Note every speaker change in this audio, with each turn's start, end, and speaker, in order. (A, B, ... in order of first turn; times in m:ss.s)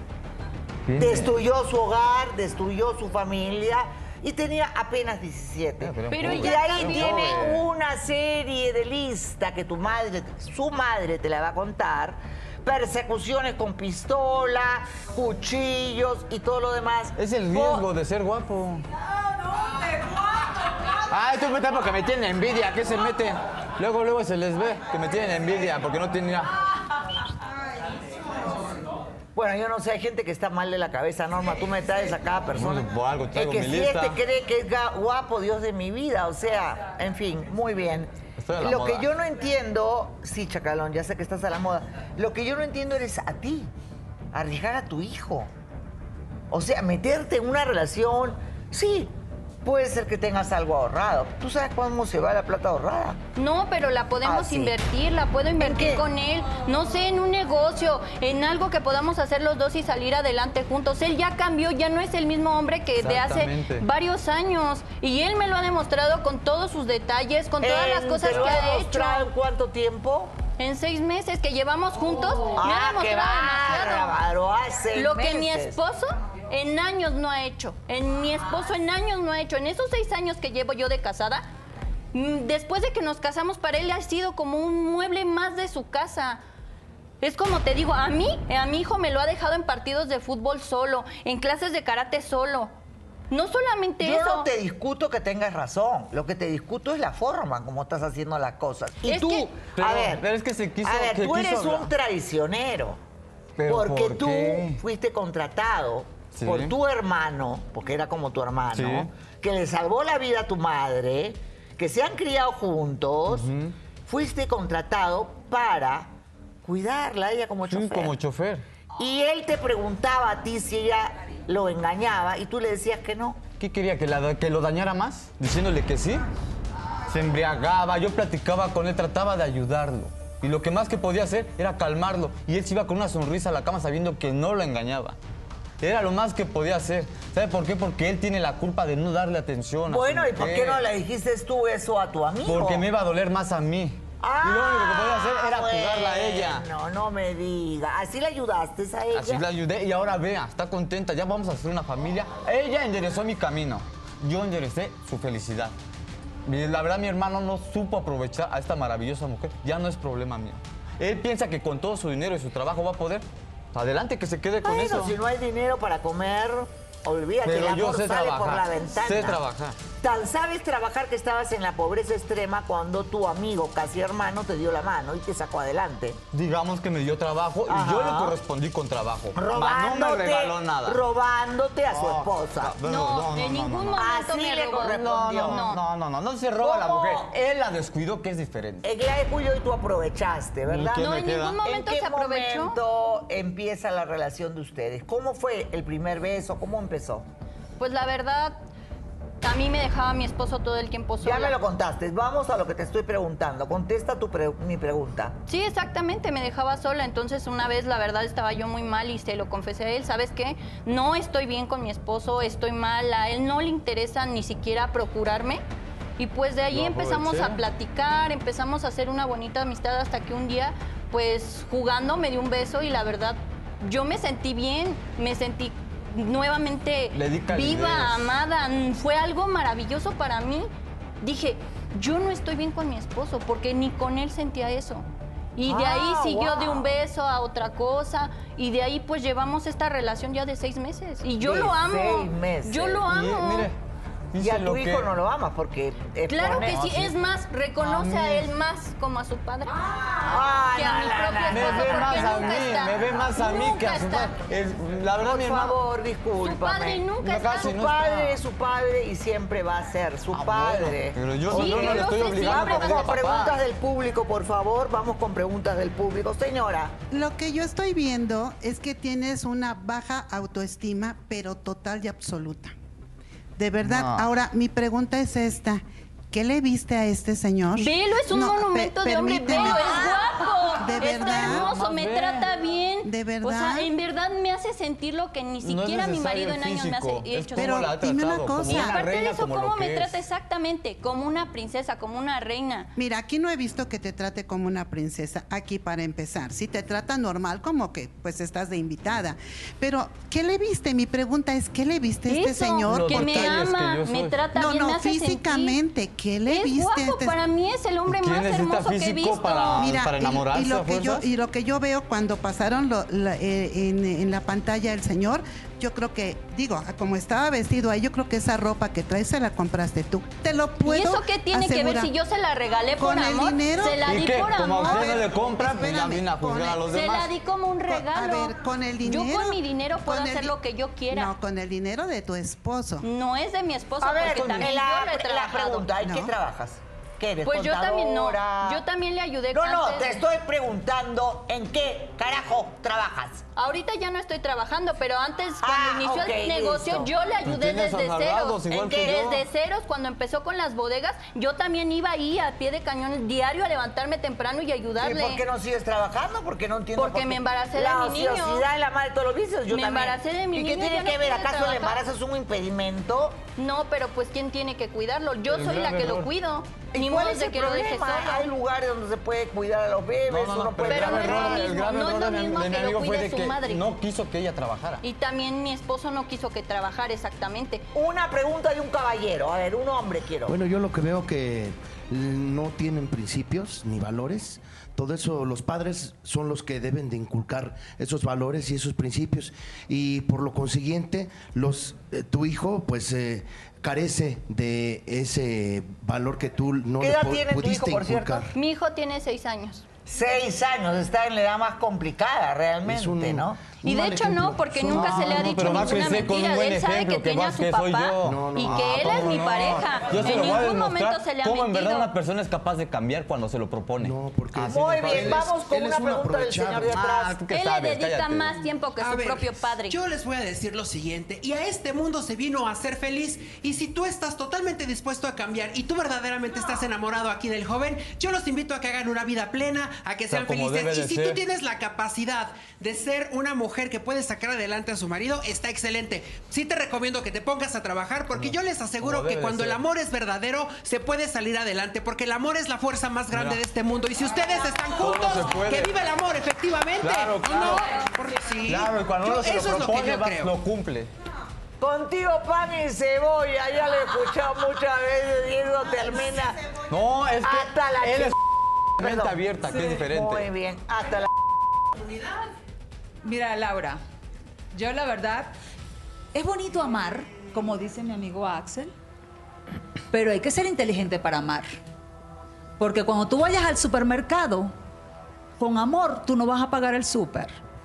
0:00.9-0:01.3 A
0:01.0-0:17.8 B
0:05.8-0:07.6 A
0:06.1-0:07.4 C
0:17.2-0:18.8 A
0:21.1-0:26.5 A
0:29.3-0:43.7 B
0:32.5-0:34.2 A
0:38.4-0:39.1 A
0:44.3-0:45.5 B
0:46.5-0:49.1 B
0:49.6-0:53.2 B
0:53.4-1:09.3 C
0:54.2-0:54.7 B
0:55.6-0:56.0 B
1:03.0-1:03.8 A
1:07.6-1:10.3 B
1:08.3-1:08.6 A
1:10.6-1:14.2 C
1:12.6-1:15.8 B
1:14.9-1:21.4 C
1:22.1-1:26.4 C
1:27.2-1:32.7 C
1:33.3-1:34.5 C
1:34.0-1:40.2 B
1:39.0-1:39.5 C
1:39.7-1:41.9 A
1:40.8-1:43.0 B
1:43.6-1:44.8 A
1:43.7-1:53.5 B
1:46.3-1:46.7 A
1:48.7-1:49.1 A
1:53.3-1:53.7 A
1:54.0-1:56.1 B
1:56.6-1:58.1 B
1:57.7-1:58.6 A
1:59.0-2:03.4 B
2:03.6-2:06.2 A
2:07.1-2:15.2 A
2:15.8-2:20.8 A
2:19.9-2:22.9 B
2:22.4-2:26.6 A
2:24.2-2:29.4 B
2:29.1-2:35.7 A
2:36.4-2:45.2 A
2:44.6-2:49.4 B
2:47.4-2:49.8 A
2:50.0-2:56.2 B
2:56.3-3:01.0 A
2:57.7-2:58.4 B
2:59.3-3:02.7 B
3:01.9-3:04.1 A
3:02.8-3:05.8 C
3:03.9-3:05.8 B
3:04.9-3:08.8 A
3:06.6-3:07.3 B
3:08.8-3:17.2 B
3:10.7-3:11.6 A
3:11.0-3:12.8 C
3:17.8-3:18.6 C
3:19.4-3:21.6 C
3:21.2-3:25.4 B
3:25.5-3:35.6 C
3:36.2-3:50.7 C
3:36.7-3:37.6 A
3:47.1-3:48.3 A
3:51.2-3:55.0 C
3:55.6-4:03.7 C
3:55.6-3:56.9 B
4:01.4-4:03.1 B
4:03.1-4:03.8 A
4:04.3-4:05.1 A
4:04.4-4:07.1 B
4:06.3-4:14.3 C
4:06.8-4:07.1 A
4:07.8-4:08.5 A
4:10.1-4:13.1 B
4:11.5-4:15.8 A
4:15.2-4:26.9 B
4:16.4-4:17.7 C
4:17.2-4:18.4 A
4:20.3-4:23.6 A
4:21.5-4:23.5 C
4:27.1-4:32.7 D
4:33.6-4:41.7 D
4:33.8-4:34.3 A
4:37.8-4:47.9 C
4:41.1-4:42.5 A
4:43.0-4:43.9 D
4:45.6-4:50.2 A
4:47.6-4:49.0 D
4:48.5-4:52.9 C
4:53.0-5:03.7 D
5:02.3-5:05.8 C
5:02.9-5:04.4 A
5:04.5-5:07.3 D
5:06.5-5:09.9 C
5:08.1-5:11.2 A
5:09.8-5:22.1 D
5:20.8-5:25.2 C
5:23.0-5:24.1 D
5:24.0-5:27.3 A
5:24.7-5:26.8 D
5:26.9-5:31.3 C
5:27.9-5:30.5 D
5:31.1-5:33.0 D
5:33.0-5:35.9 C
5:34.0-5:38.8 B
5:36.0-5:36.3 D
5:37.4-5:40.2 C
5:39.5-5:43.4 B
5:43.6-5:55.4 C
5:45.6-5:47.1 B
5:47.4-5:49.4 A
5:48.8-5:49.2 B
5:55.0-6:03.4 B
5:57.0-5:58.6 C
5:59.7-6:02.0 C
6:03.6-6:08.5 C
6:05.5-6:06.3 A
6:06.9-6:11.7 B
6:10.3-6:15.0 A
6:10.9-6:13.8 C
6:15.0-6:17.8 C
6:17.9-6:20.5 B
6:20.4-6:38.5 E
6:37.0-6:38.5 B
6:38.5-6:39.8 C
6:40.0-6:43.6 B
6:42.8-6:46.3 E
6:43.8-6:52.1 C
6:44.9-6:55.5 A
6:48.2-6:49.8 E
6:54.0-6:57.0 E
6:54.7-6:57.4 B
6:56.9-6:58.5 A
6:57.5-7:00.0 C
6:59.0-7:30.5 F
7:10.3-7:11.4 A
7:18.3-7:19.8 A
7:23.3-7:23.6 A
7:25.0-7:25.9 A
7:27.0-7:27.9 A
7:28.6-7:31.1 A
7:31.8-7:36.6 B
7:36.9-7:38.4 A
7:37.4-7:38.4 B
7:39.0-7:40.5 A
7:39.0-7:41.3 B
7:43.2-7:44.0 G
7:44.7-7:45.5 G
7:46.3-7:48.9 G
7:50.1-7:51.7 G
7:52.8-7:54.7 G
7:55.6-7:57.6 G